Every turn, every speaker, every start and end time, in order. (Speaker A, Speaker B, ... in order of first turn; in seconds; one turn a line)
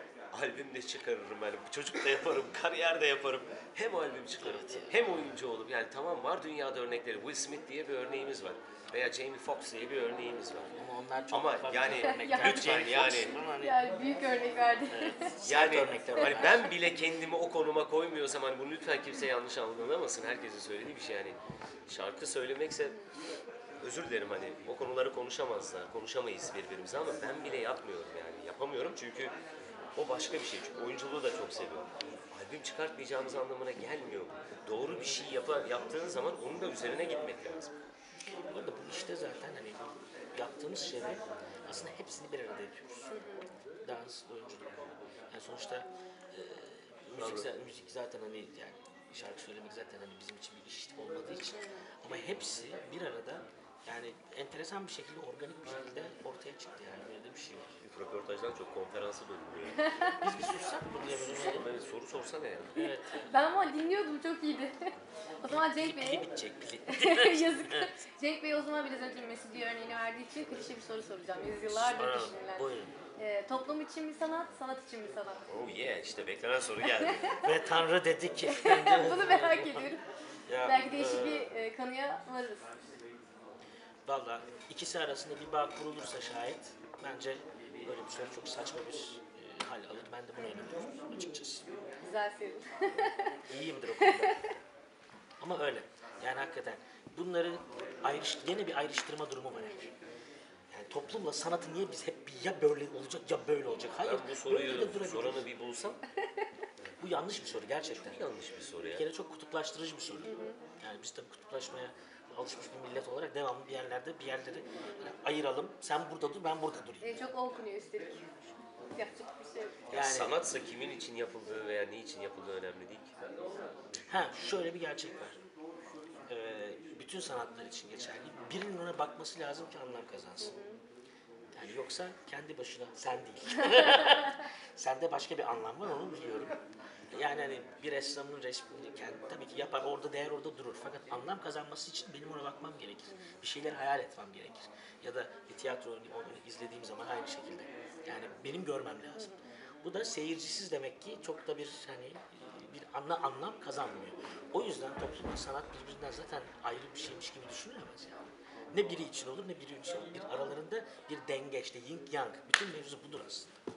Speaker A: 0.3-10.7
Speaker B: 4.4-5.0
Speaker B: 10.8-13.9
Speaker A: 11.3-13.4
Speaker C: 12.0-15.3
Speaker B: 14.9-16.6
Speaker A: 15.4-23.0
Speaker C: 16.1-16.7
Speaker A: 23.8-29.4
Speaker A: 30.0-37.7
Speaker B: 38.5-43.1
Speaker C: 43.1-43.5
Speaker B: 43.8-44.8
Speaker B: 45.3-57.7
Speaker A: 47.1-47.5
Speaker C: 51.5-51.9
Speaker A: 57.8-59.8
Speaker C: 59.8-60.6
Speaker B: 60.1-61.7
Speaker C: 61.2-61.5
Speaker A: 61.3-62.8
Speaker B: 62.8-63.4
Speaker C: 62.9-64.9
Speaker C: 65.4-66.3
Speaker B: 65.5-67.9
Speaker C: 66.9-75.4
Speaker B: 71.7-73.0
Speaker A: 75.5-77.4
Speaker C: 76.9-77.2
Speaker B: 77.4-79.9
Speaker C: 78.5-80.0
Speaker B: 80.5-81.5
Speaker C: 80.6-82.7
Speaker B: 84.1-91.7
Speaker C: 92.0-93.4
Speaker B: 93.5-94.5
Speaker C: 93.9-94.5
Speaker B: 95.4-99.9
Speaker C: 99.5-99.9
Speaker B: 100.7-105.5
Speaker A: 104.0-106.0
Speaker B: 107.0-108.2
Speaker A: 107.9-109.0
Speaker B: 108.9-117.2
Speaker C: 110.2-110.6
Speaker C: 117.0-118.2
Speaker C: 118.9-119.8
Speaker A: 119.9-123.1
Speaker B: 119.9-120.4
Speaker B: 124.1-125.4
Speaker B: 126.3-130.6
Speaker C: 130.4-130.8
Speaker B: 131.6-136.6
Speaker C: 133.8-134.4
Speaker B: 137.1-158.2
Speaker C: 143.1-143.4
Speaker B: 158.7-163.6